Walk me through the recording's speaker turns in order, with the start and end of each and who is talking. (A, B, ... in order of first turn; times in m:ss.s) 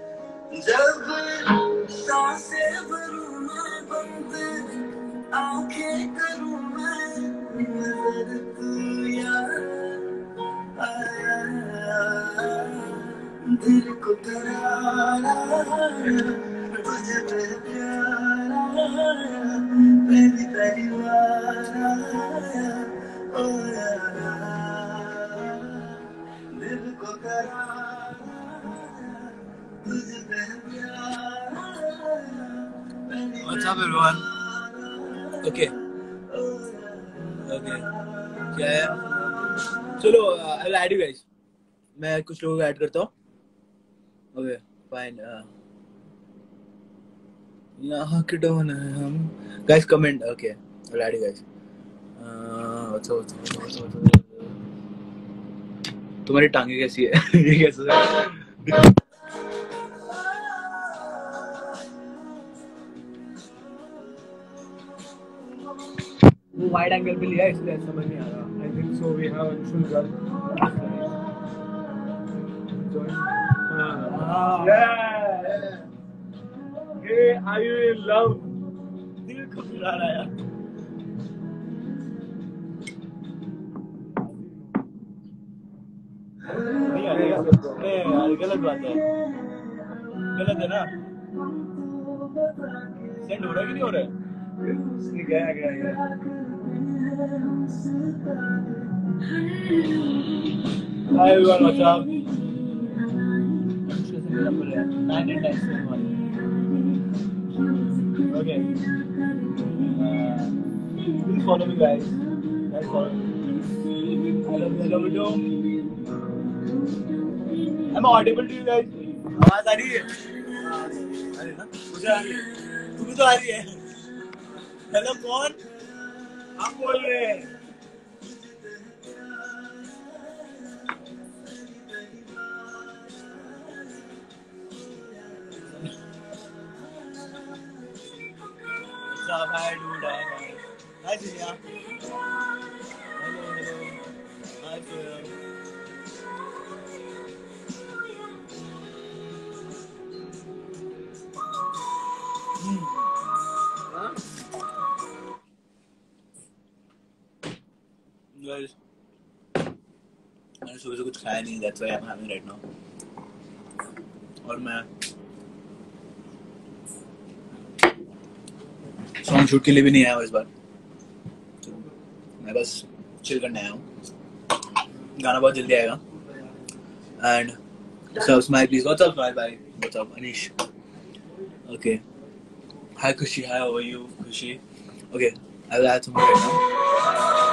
0:00.5-0:35.4 A
0:33.4-0:34.3 B
0:35.4-0:35.7 B
0:36.3-0:37.4 A
0:37.3-0:37.9 B
0:38.4-0:39.0 B
0:39.9-0:41.2 B
0:42.0-0:43.1 B
0:44.3-0:45.5 B
0:47.8-0:51.4 B
0:52.2-0:54.5 B
0:56.2-0:58.9 B
1:06.6-1:08.5 B
1:08.5-1:11.1 C
1:12.7-1:15.8 C
1:14.0-1:14.9 B
1:17.0-1:18.5 C
1:19.2-1:20.3 B
1:26.8-1:29.0 B
1:27.1-1:27.8 C
1:30.2-1:30.9 B
1:32.4-1:33.0 A
1:33.2-1:34.1 B
1:34.7-1:35.1 A
1:35.0-1:36.0 B
1:36.2-1:37.7 A
1:38.3-1:38.6 A
1:41.0-1:42.3 B
1:43.7-1:46.2 B
1:48.1-1:48.7 B
1:49.8-1:53.3 B
1:54.3-1:55.6 B
1:57.9-2:03.8 B
2:04.9-2:05.6 B
2:06.6-2:07.5 B
2:19.0-2:21.6 B
2:23.2-2:24.0 B
2:24.6-2:25.4 B
2:38.3-2:38.7 B
2:40.6-2:42.6 B
2:44.4-2:44.9 B
2:49.2-2:50.5 B
2:52.4-2:53.8 B
2:55.2-2:56.0 B
2:57.2-2:57.6 B
2:58.1-3:00.5 B
3:01.7-3:02.0 B
3:03.0-3:04.6 B
3:05.1-3:06.6 B